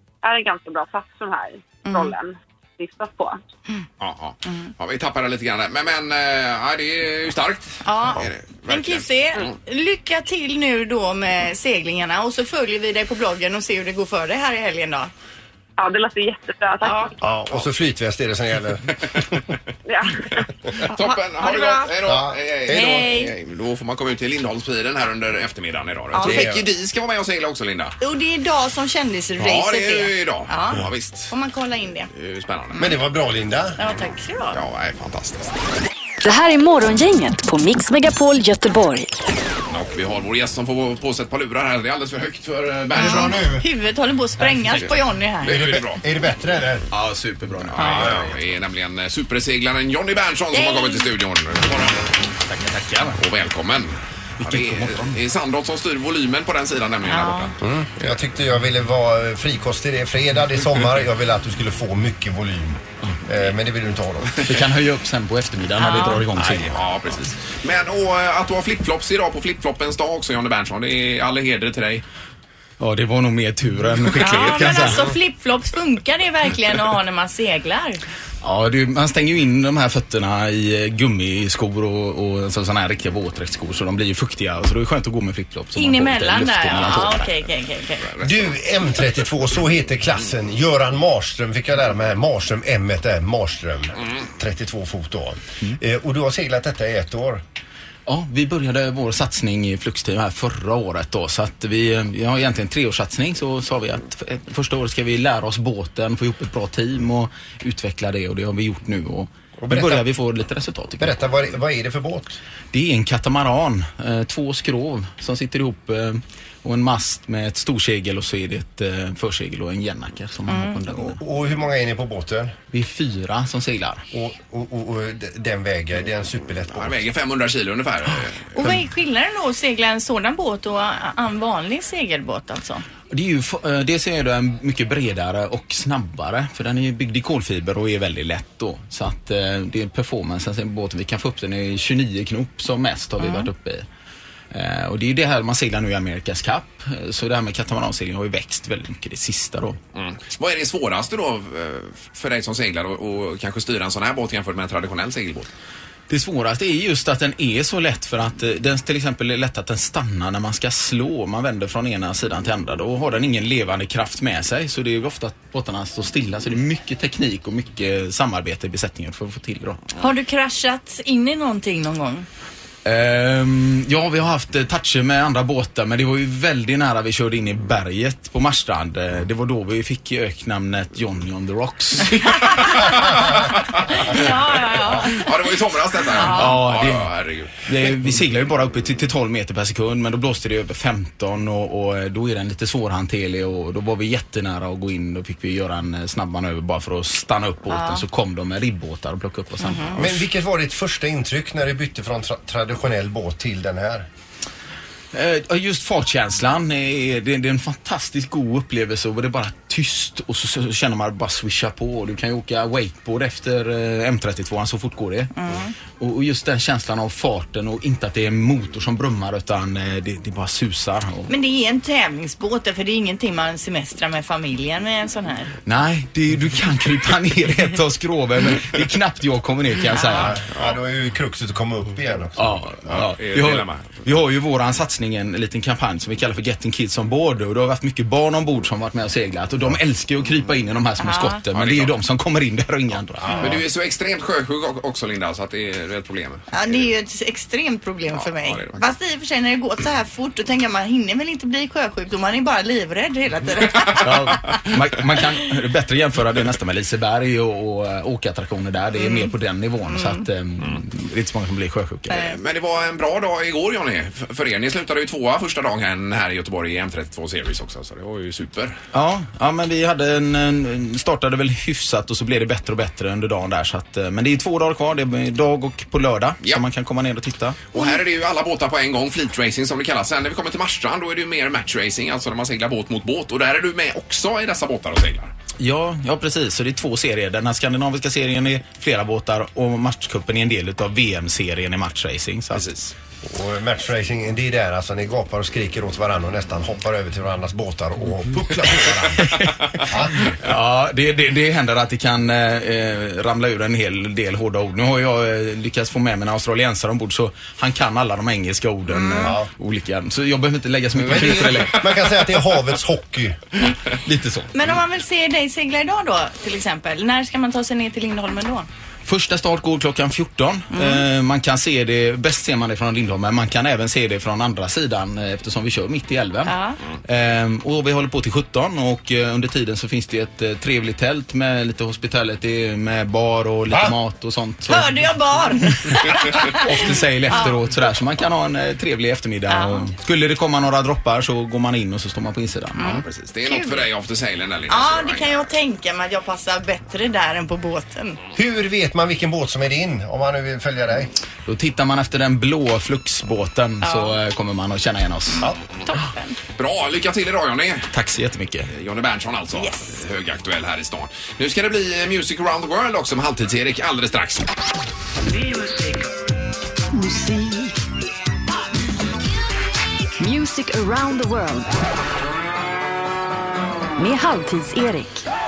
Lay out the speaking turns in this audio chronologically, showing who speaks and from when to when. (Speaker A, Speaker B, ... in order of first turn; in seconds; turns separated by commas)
Speaker A: 0.2-3.4, Speaker B: 1.9-2.1, Speaker C: 4.0-9.5, Speaker B: 4.4-4.7, Speaker B: 7.8-15.1, Speaker A: 15.8-17.1, Speaker D: 17.2-19.2, Speaker A: 19.9-20.4, Speaker C: 20.9-28.0, Speaker B: 20.9-21.9, Speaker D: 22.0-22.3, Speaker B: 22.7-23.3, Speaker B: 26.1-26.5, Speaker D: 26.2-26.6, Speaker B: 28.0-32.1, Speaker C: 29.4-31.3, Speaker C: 32.1-32.8, Speaker D: 32.8-33.8, Speaker B: 33.8-34.6, Speaker C: 34.5-35.6, Speaker E: 36.2-39.1, Speaker C: 39.7-43.4, Speaker B: 43.0-45.6, Speaker D: 43.0-43.6, Speaker C: 45.4-46.0, Speaker D: 45.5-46.9, Speaker F: 46.9-48.3, Speaker C: 47.7-52.0, Speaker D: 47.8-48.3, Speaker B: 50.5-51.1, Speaker F: 52.5-53.1, Speaker C: 53.1-58.2, Speaker F: 54.4-55.2, Speaker B: 57.1-57.5, Speaker D: 57.6-64.4, Speaker F: 64.4-66.8, Speaker B: 65.8-66.2, Speaker C: 66.3-72.0, Speaker F: 72.8-75.1, Speaker B: 74.2-78.0, Speaker F: 78.4-87.2, Speaker B: 85.7-88.0, Speaker C: 88.0-88.6, Speaker D: 88.2-97.4, Speaker F: 98.1-111.1, Speaker D: 109.6-110.1, Speaker D: 111.0-112.4, Speaker F: 112.7-121.2, Speaker B: 120.5-120.8, Speaker D: 121.0-122.6, Speaker F: 122.7-124.0, Speaker D: 124.1-127.0, Speaker C: 126.7-128.5, Speaker B: 128.6-132.8, Speaker F: 133.1-143.9, Speaker B: 143.2-143.5, Speaker F: 144.5-149.8, Speaker C: 149.9-155.5, Speaker F: 156.1-169.9, Speaker B: 170.0-172.2, Speaker F: 172.8-182.7, Speaker B: 182.4-182.9, Speaker C: 183.7-184.4, Speaker B: 184.1-185.3, Speaker C: 185.0-188.0, Speaker B: 186.1-186.6, Speaker F: 186.4-187.1, Speaker F: 187.6-200.0, Speaker B: 197.7-198.1, Speaker B: 199.6-200.0, Speaker D: 200.0-204.1, Speaker F: 205.1-215.3, Speaker B: 215.3-215.7, Speaker F: 216.0-221.3, Speaker B: 221.3-225.5, Speaker F: 225.7-230.4, Speaker B: 229.9-230.3, Speaker D: 230.1-233.0, Speaker F: 232.4-243.3, Speaker C: 232.9-234.0, Speaker B: 241.0-241.4, Speaker C: 241.5-242.0, Speaker D: 243.2-243.6, Speaker C: 243.4-246.9, Speaker B: 246.5-254.6, Speaker C: 248.2-248.8, Speaker F: 254.0-262.3, Speaker B: 259.0-259.3, Speaker B: 259.9-260.2, Speaker B: 262.1-262.4, Speaker C: 262.2-268.8, Speaker F: 268.9-277.6, Speaker C: 277.7-285.3, Speaker F: 285.6-292.7, Speaker C: 292.5-292.9, Speaker D: 293.2-300.4, Speaker F: 300.4-311.9, Speaker B: 308.9-309.4, Speaker D: 309.2-309.5, Speaker D: 310.9-313.4, Speaker F: 314.1-314.5, Speaker B: 314.5-318.7, Speaker F: 319.1-334.9, Speaker B: 320.7-321.1, Speaker B: 326.4-326.8, Speaker D: 333.7-333.9, Speaker B: 334.7-336.6, Speaker F: 336.6-342.9, Speaker B: 337.3-337.6, Speaker B: 339.5-339.9, Speaker B: 342.8-343.9, Speaker C: 342.8-345.5, Speaker B: 344.7-348.2, Speaker D: 348.4-351.1, Speaker F: 351.4-355.5, Speaker B: 353.8-354.1, Speaker B: 355.9-356.4, Speaker C: 356.6-357.9, Speaker F: 357.9-358.7, Speaker C: 358.7-364.5, Speaker B: 359.5-360.0, Speaker E: 366.9-367.7, Speaker E: 370.2-371.7, Speaker E: 374.0-375.2